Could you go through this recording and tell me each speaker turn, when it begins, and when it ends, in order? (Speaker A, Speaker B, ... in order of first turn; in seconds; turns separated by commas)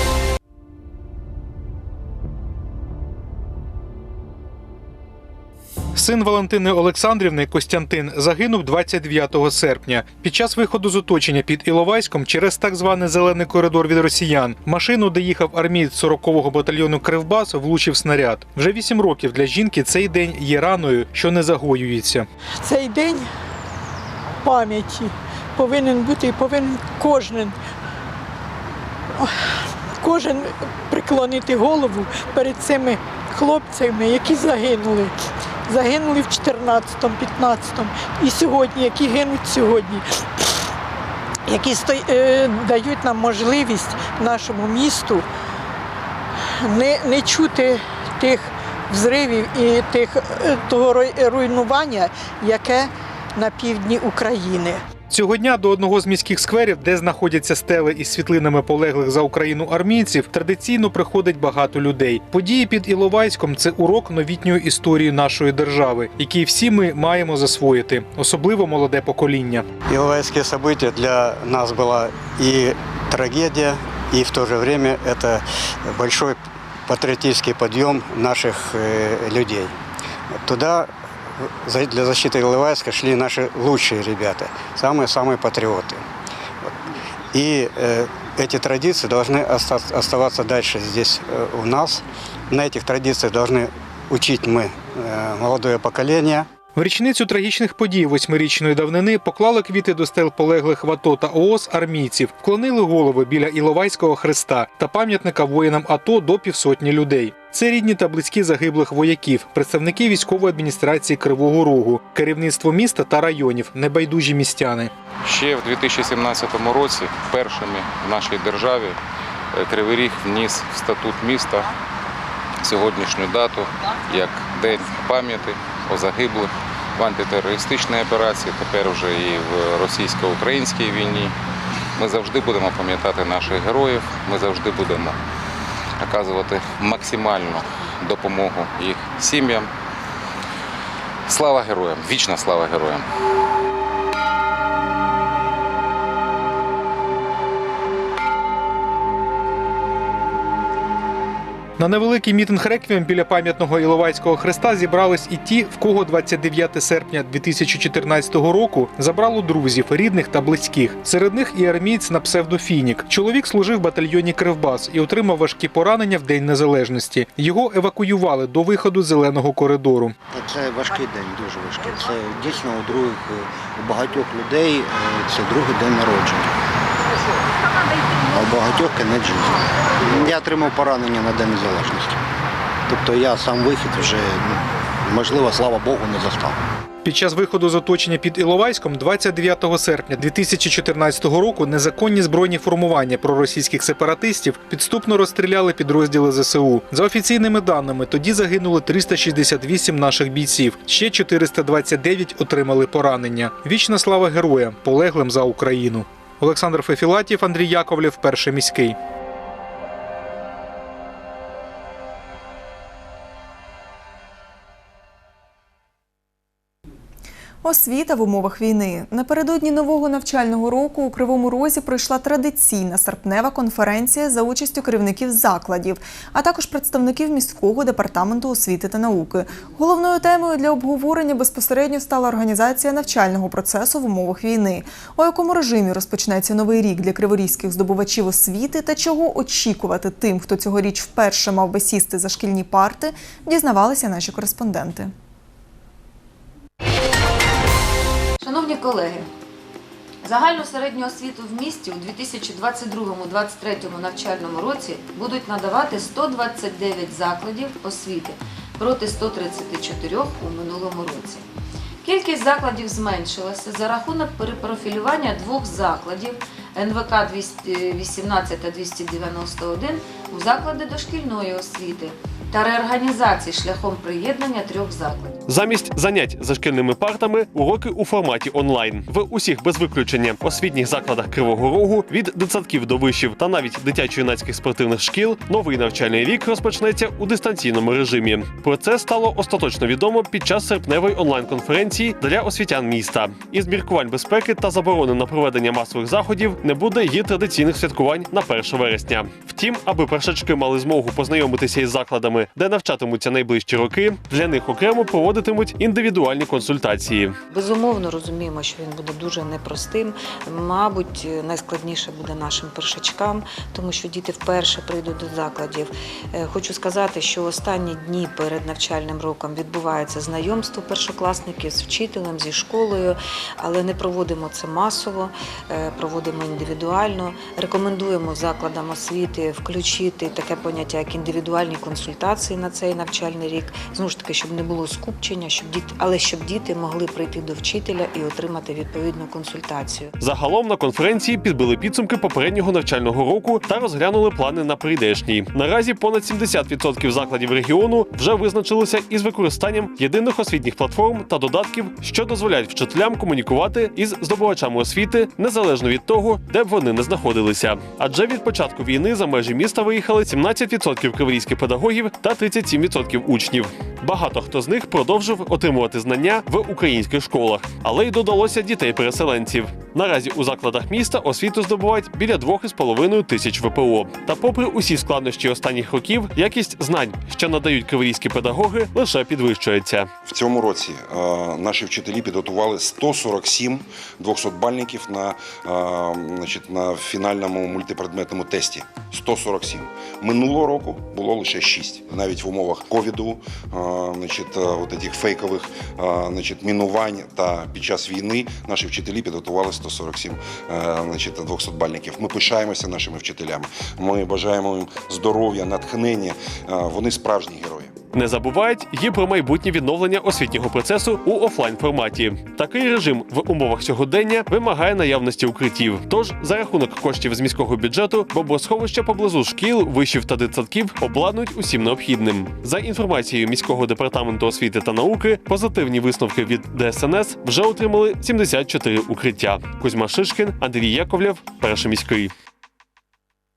Speaker A: 5.9-22.3, Speaker B: 22.6-23.3, Speaker B: 24.4-27.6, Speaker B: 30.0-40.0, Speaker B: 41.5-45.2, Speaker B: 46.6-54.8, Speaker A: 55.1-69.7, Speaker C: 69.9-79.7, Speaker C: 80.4-86.0, Speaker C: 87.3-96.5, Speaker A: 96.7-114.9, Speaker D: 115.2-119.0, Speaker D: 119.5-121.7, Speaker D: 122.6-131.3, Speaker D: 132.0-135.2, Speaker D: 136.0-139.7, Speaker D: 141.3-143.1, Speaker A: 151.8-170.1, Speaker E: 170.3-176.6, Speaker E: 178.3-182.2, Speaker E: 182.9-186.6, Speaker A: 187.0-208.9, Speaker F: 217.6-245.1, Speaker G: 248.4-249.3, Speaker G: 250.2-261.4, Speaker G: 262.0-275.4, Speaker H: 275.5-307.3, Speaker G: 307.5-340.1, Speaker H: 340.2-380.1, Speaker I: 380.3-407.9, Speaker H: 408.1-432.3